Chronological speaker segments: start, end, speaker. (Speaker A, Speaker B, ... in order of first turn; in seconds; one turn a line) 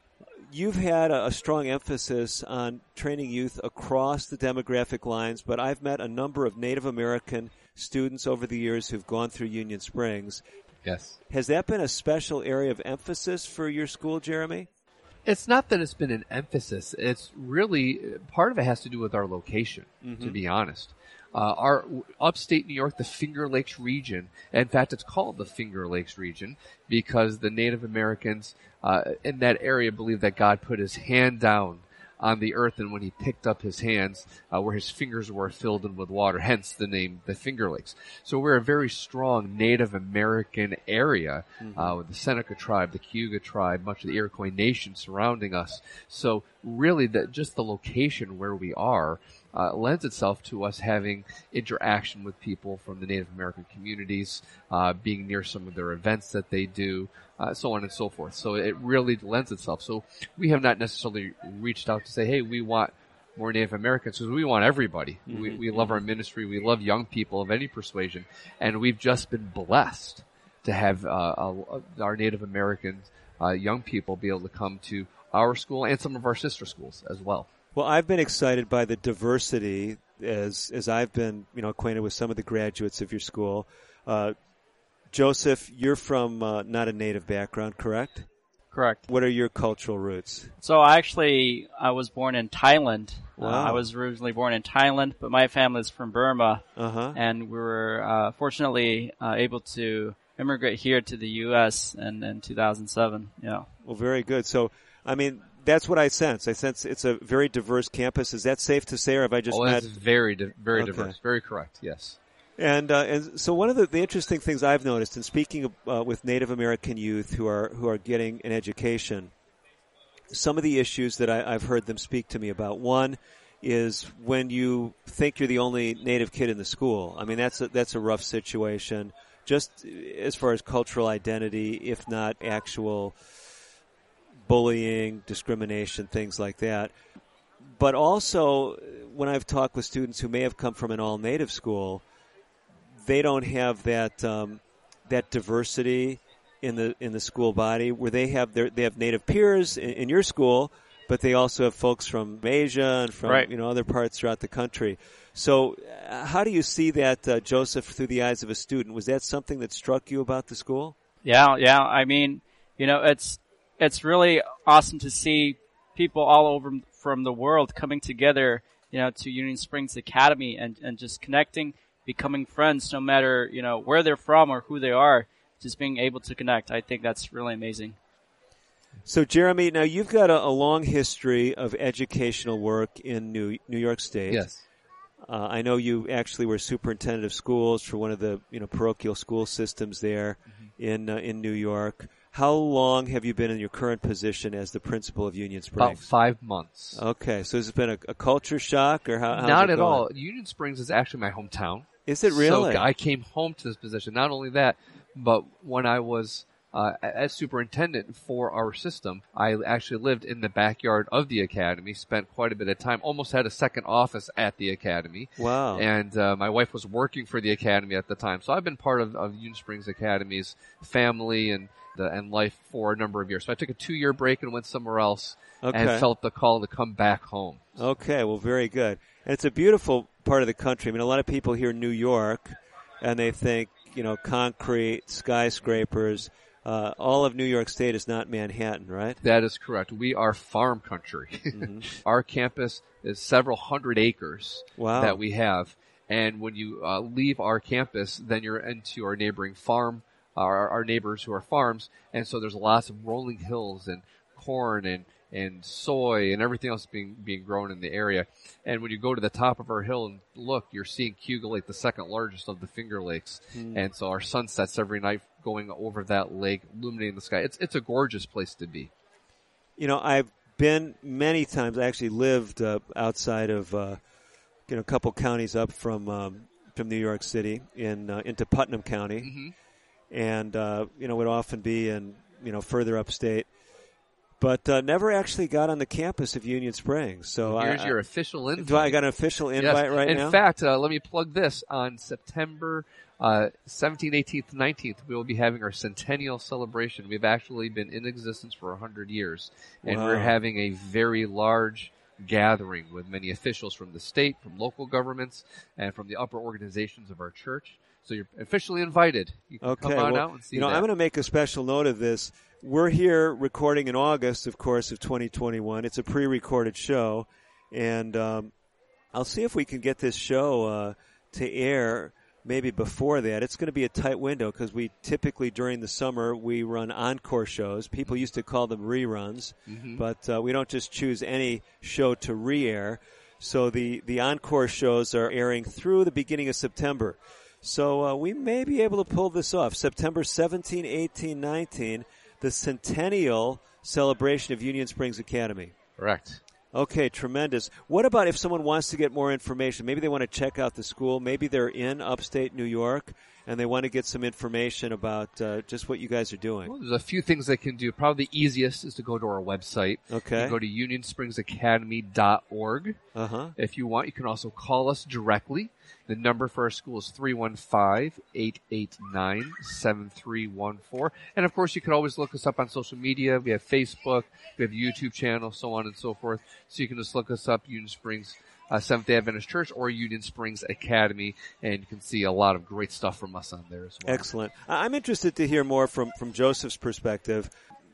Speaker A: 0.5-10.4
Speaker B: 10.8-11.2
Speaker A: 11.3-14.7
Speaker B: 15.2-77.5
Speaker A: 20.0-20.4
Speaker A: 41.6-42.0
Speaker A: 65.3-66.0
Speaker A: 77.7-84.3
Speaker A: 85.1-88.3
Speaker C: 88.7-89.0
Speaker A: 89.1-90.5
Speaker C: 90.6-103.7
Speaker A: 93.4-93.9
Speaker A: 96.8-97.2
Speaker A: 103.8-109.9
Speaker B: 109.5-112.2
Speaker A: 110.7-111.2
Speaker A: 112.6-119.3
Speaker A: 120.3-133.2
Speaker A: 134.4-136.9
Speaker A: 137.6-142.0
Speaker A: 143.0-160.9
Speaker C: 153.2-153.5
Speaker C: 161.2-178.0
Speaker A: 179.1-184.4
Speaker B: 184.3-184.6
Speaker A: 185.2-196.0
Speaker B: 195.8-197.0
Speaker A: 196.9-200.1
Speaker B: 199.3-227.8
Speaker A: 202.1-202.9
Speaker A: 215.4-215.9
Speaker A: 225.6-226.1
Speaker A: 227.8-239.2
Speaker B: 239.2-268.9
Speaker A: 241.5-241.9
Speaker A: 244.8-245.2
Speaker A: 263.5-263.9
Speaker A: 269.8-274.0
Speaker A: 274.7-279.3
Speaker B: 279.2-279.5
Speaker A: 280.1-283.5
Speaker A: 284.4-288.0
Speaker B: 287.4-310.9
Speaker A: 288.6-290.4
Speaker A: 299.8-300.4
Speaker A: 309.6-318.5
Speaker A: 319.1-345.7
Speaker B: 329.7-330.0
Speaker B: 346.0-346.4
Speaker A: 346.7-356.7
Speaker B: 356.6-363.0
Speaker A: 360.1-360.6
Speaker A: 363.1-363.5
Speaker B: 363.6-384.3
Speaker A: 384.0-387.5